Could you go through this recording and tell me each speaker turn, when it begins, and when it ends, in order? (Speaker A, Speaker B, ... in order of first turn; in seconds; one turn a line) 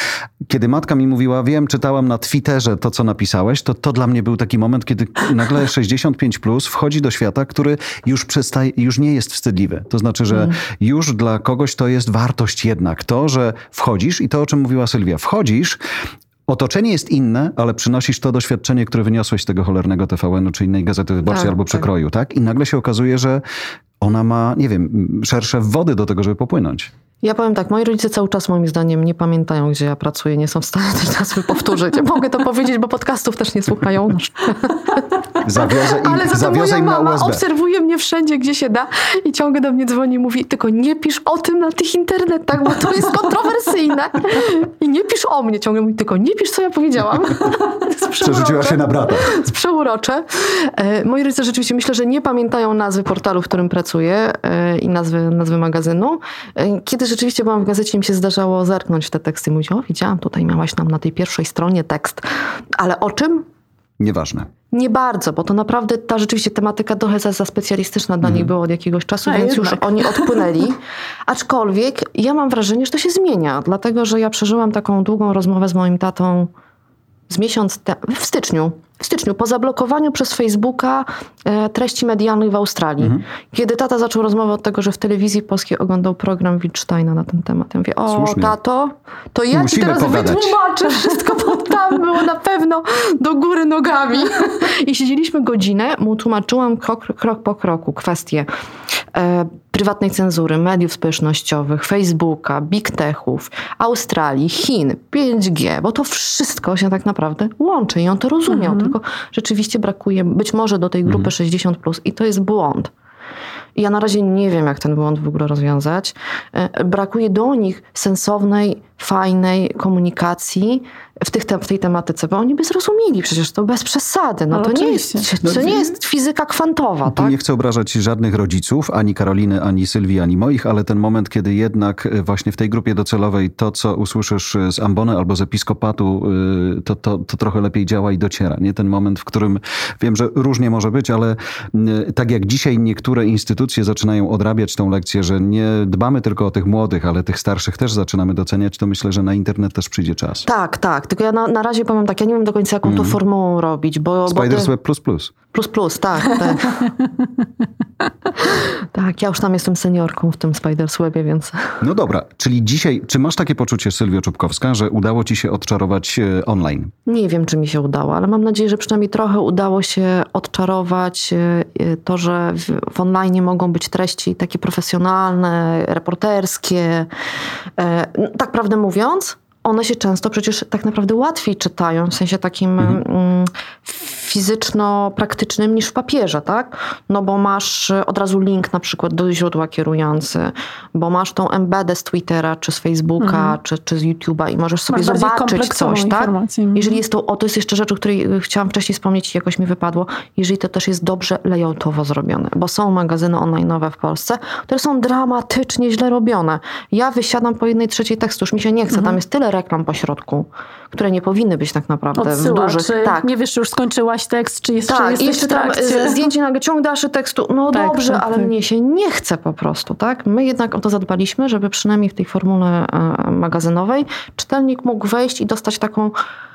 Speaker A: 0.4-15.8
Speaker A: 16.5-23.4
Speaker B: 21.3-21.8
Speaker A: 24.0-26.9
Speaker B: 27.2-62.2
Speaker A: 35.4-37.4
Speaker A: 48.2-49.4
Speaker B: 62.7-63.5
Speaker A: 64.0-64.5
Speaker B: 64.7-76.5
Speaker A: 68.2-68.5
Speaker C: 69.2-70.3
Speaker B: 77.3-98.5
Speaker A: 88.1-88.5
Speaker A: 89.5-90.5
Speaker B: 99.1-112.9
Speaker C: 108.5-108.9
Speaker A: 111.0-111.3
Speaker B: 113.8-127.3
Speaker C: 124.5-125.3
Speaker A: 125.4-125.8
Speaker A: 127.0-150.5
Speaker B: 150.4-154.7
Speaker A: 152.8-153.2
Speaker A: 154.3-155.3
Speaker B: 155.5-156.9
Speaker B: 158.4-161.8
Speaker A: 161.8-166.9
Speaker B: 167.1-177.1
Speaker B: 177.8-213.3
Speaker C: 193.2-193.6
Speaker C: 194.9-197.0
Speaker C: 212.2-216.3
Speaker B: 214.8-226.1
Speaker C: 217.7-218.5